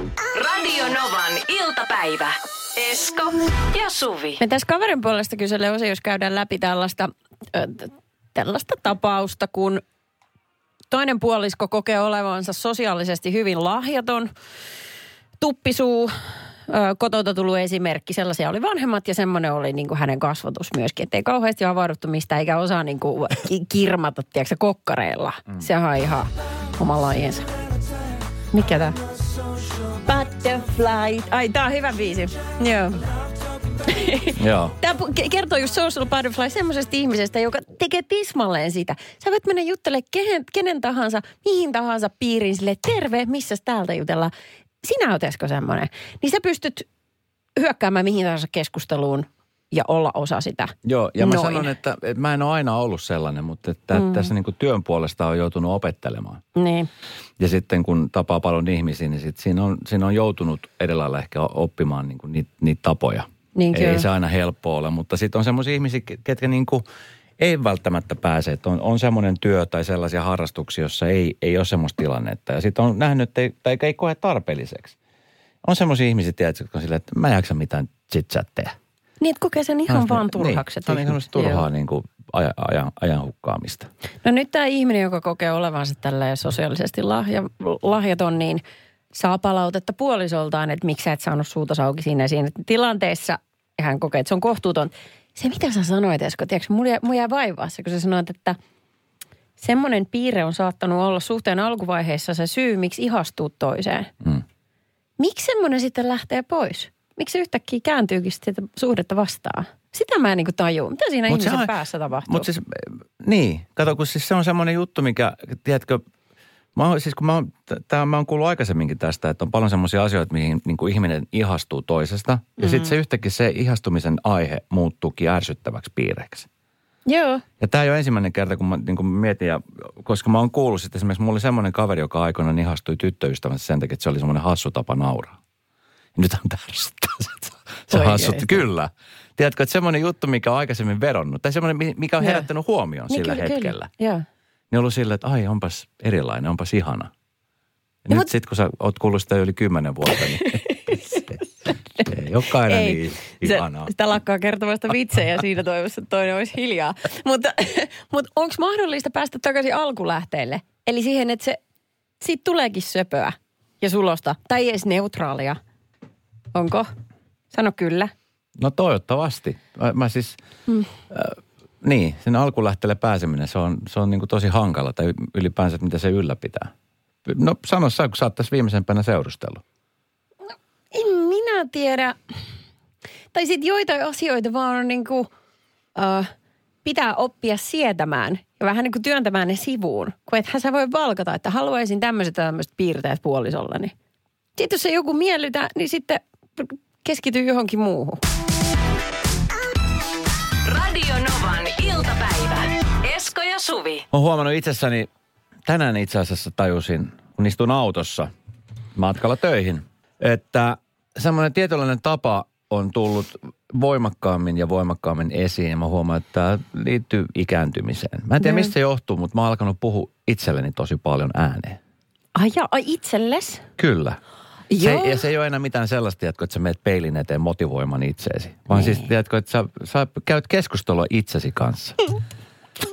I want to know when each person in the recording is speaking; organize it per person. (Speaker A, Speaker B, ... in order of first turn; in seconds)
Speaker A: 0.3-4.4, 200.6-204.1
Speaker B: 4.4-9.8, 10.9-14.3, 15.4-27.5, 28.5-29.0, 30.0-33.0, 33.8-44.3, 44.8-46.9, 47.5-51.7, 53.9-54.3, 56.5-56.9, 63.5-64.0, 79.2-81.6, 84.2-98.6, 99.6-104.1, 105.2-112.5, 122.6-122.9, 127.0-127.4, 137.9-138.6, 142.2-142.5, 143.1-144.2, 150.1-152.1, 152.6-161.6, 162.2-165.6, 166.5-166.9, 167.5-168.1, 180.5-182.2, 183.3-185.3, 185.9-186.3, 186.8-193.9, 194.6-198.2, 218.4-218.7, 222.3-223.7, 224.7-225.2, 228.7-229.1
Speaker C: 34.4-34.8, 50.8-56.4, 57.4-66.8, 67.4-75.0, 75.6-78.8, 79.9-83.9, 111.3-111.7, 112.2-116.0, 116.7-126.5, 127.6-135.4, 136.2-143.9, 144.7-147.1, 148.0-151.2, 152.1-153.9, 168.6-170.4, 171.1-176.7, 177.2-179.6, 204.1-205.1, 205.7-208.3, 208.9-221.8, 223.8-224.2, 224.8-232.0